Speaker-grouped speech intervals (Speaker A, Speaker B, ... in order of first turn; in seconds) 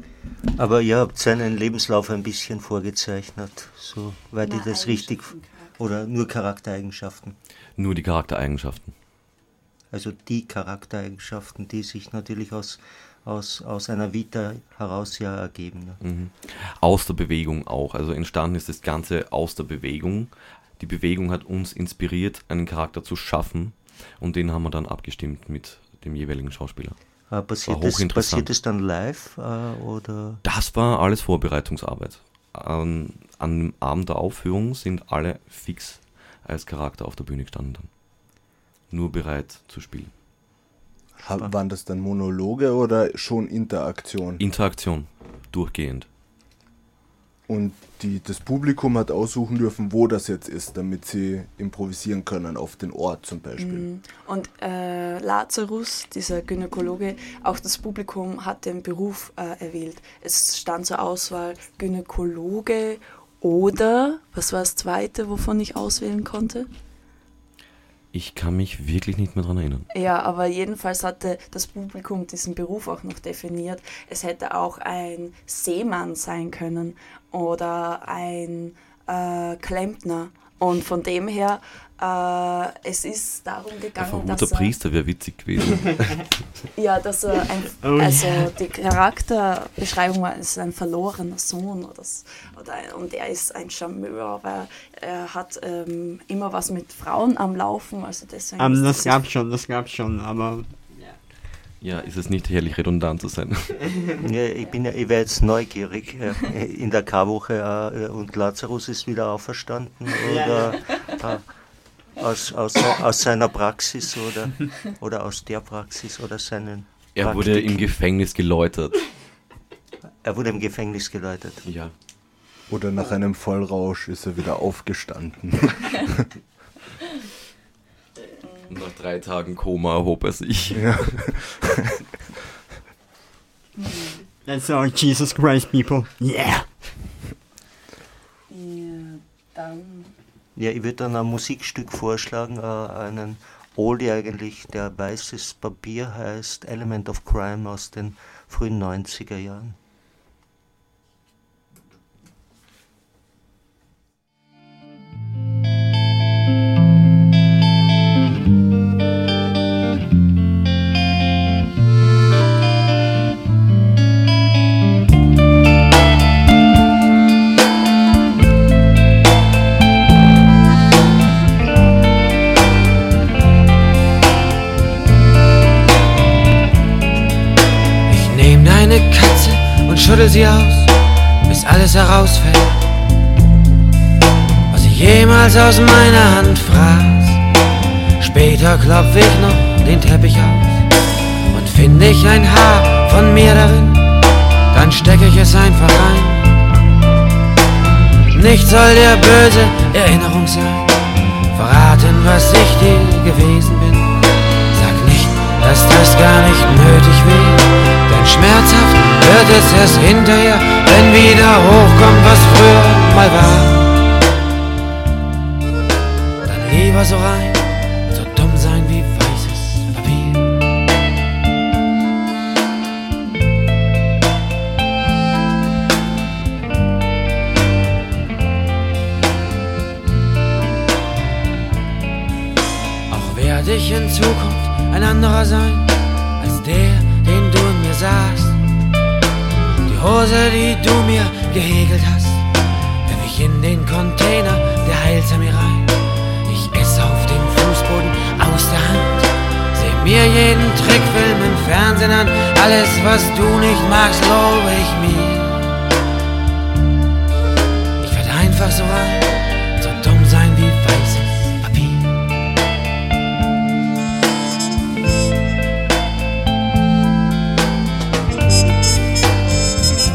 Speaker A: 0.6-7.4, 9.9-16.0, 27.3-30.4, 104.2-111.5, 112.2-117.9, 120.2-121.7, 140.6-149.8
Speaker B: 4.4-5.8, 53.6-66.7, 69.9-84.7, 86.8-99.2, 133.8-134.2, 138.5-140.1
Speaker C: 7.8-8.9, 16.0-27.0, 27.7-28.5, 30.4-37.9, 38.9-40.1, 44.4-46.1, 68.1-69.9, 84.0-86.3, 101.8-103.9, 117.1-119.0, 121.6-121.9, 128.7-131.4
Speaker D: 41.2-44.4, 47.5-53.9, 122.7-126.3, 130.7-131.7
Speaker E: 87.8-88.5, 98.6-101.2, 103.9-104.2, 110.2-111.1, 134.4-137.1
Speaker F: 178.1-182.8, 184.7-187.4, 188.2-190.8, 191.5-194.2, 194.7-196.6, 198.3-201.0, 201.5-204.2, 204.7-214.1, 216.4-220.6, 233.1-238.6, 239.8-242.5, 243.0-255.8, 258.0-262.2